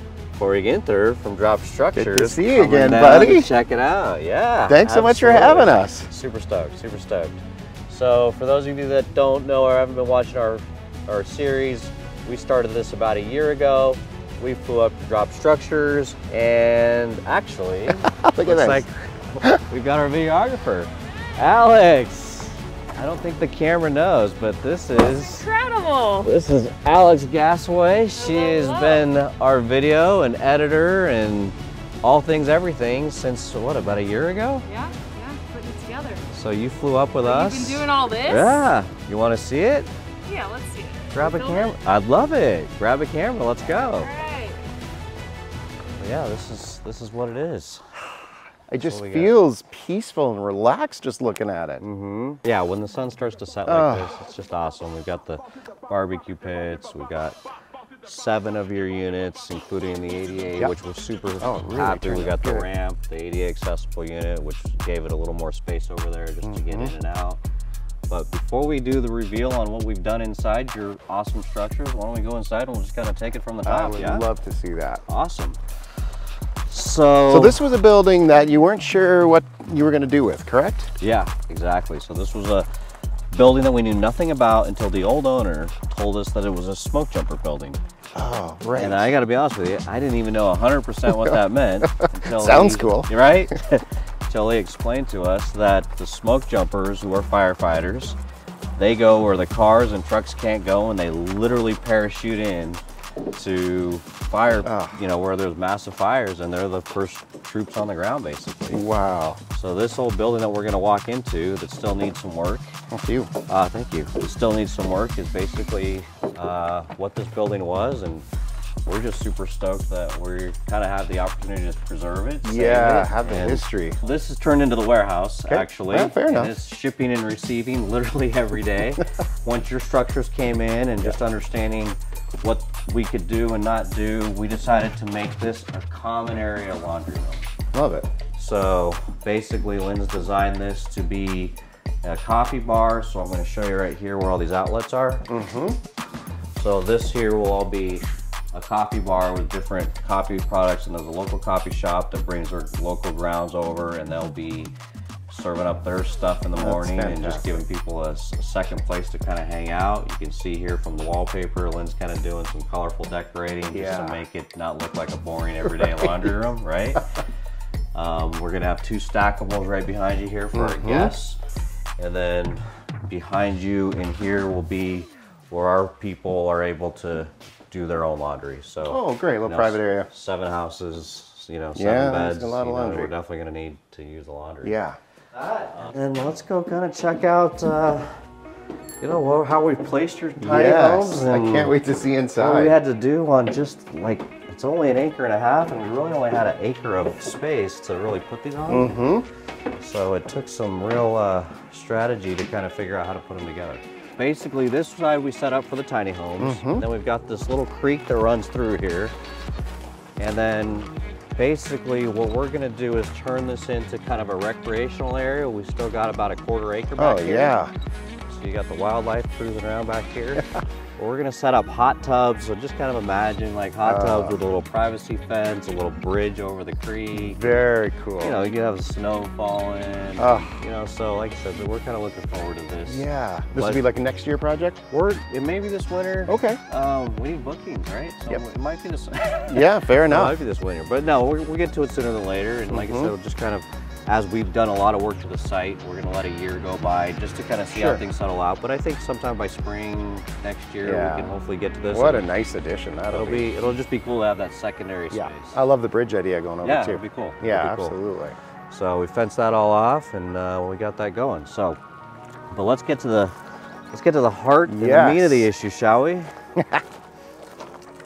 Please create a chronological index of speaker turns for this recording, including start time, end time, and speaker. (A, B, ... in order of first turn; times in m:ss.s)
0:00.4-0:25.5 A
0:01.9-0:03.5 B
0:04.6-0:06.1 B
0:18.1-0:18.8 B
0:25.2-0:26.3 C
0:26.2-0:34.6 A
0:28.2-0:29.0 C
0:34.7-0:36.2 C
0:36.3-0:39.9 A
0:37.2-0:38.7 C
0:40.2-0:41.7 C
0:41.1-0:44.1 A
0:43.8-0:44.6 C
0:46.0-0:48.0 A
0:48.7-0:51.8 B
0:48.8-0:49.4 A
0:51.8-0:57.4 A
0:53.6-0:54.1 B
0:58.0-1:07.4 A
1:01.4-1:02.7 B
1:06.4-1:06.9 B
1:08.1-1:14.2 A
1:13.6-1:15.0 B
1:15.1-1:15.6 A
1:16.7-1:17.6 A
1:17.3-1:20.9 B
1:21.0-1:22.7 A
1:23.3-1:27.8 A
1:28.1-1:29.1 B
1:28.7-1:38.2 A
1:31.1-1:33.1 B
1:38.8-1:48.8 A
1:44.6-1:45.0 B
1:48.7-1:49.4 B
1:49.5-1:52.8 A
1:52.9-1:53.3 B
1:53.5-1:58.2 A
1:58.8-2:17.5 A
2:02.4-2:04.0 B
2:05.5-2:06.6 B
2:17.7-2:18.1 B
2:18.3-2:25.3 A
2:25.3-2:25.8 B
2:26.5-2:34.7 A
2:35.3-2:47.0 A
2:36.5-2:37.5 B
2:43.7-2:44.2 B
2:47.9-2:51.4 A
2:50.5-2:51.1 B
2:52.0-3:04.7 A
2:58.9-3:00.1 B
3:01.7-3:03.1 B
3:04.6-3:05.0 B
3:05.3-3:08.1 A
3:09.0-3:11.7 A
3:10.4-3:12.8 B
3:12.3-3:19.0 A
3:18.7-3:19.3 B
3:19.8-3:29.1 A
3:26.4-3:26.8 B
3:30.2-3:37.6 A
3:37.0-3:37.7 B
3:38.3-3:40.4 A
3:41.0-3:53.8 A
3:43.8-3:44.4 B
3:47.3-3:48.4 B
3:50.2-3:50.6 B
3:52.8-3:54.8 B
3:54.9-4:12.2 A
3:56.3-3:56.6 B
3:59.5-4:00.3 B
4:02.7-4:03.1 B
4:07.7-4:08.0 B
4:10.8-4:11.4 B
4:11.9-4:13.5 B
4:13.1-4:15.6 A
4:15.1-4:18.4 B
4:16.6-4:18.0 A
4:18.7-4:21.8 A
4:22.5-4:23.3 A
4:23.9-4:26.3 A
4:24.7-4:25.5 B
4:26.6-4:26.8 B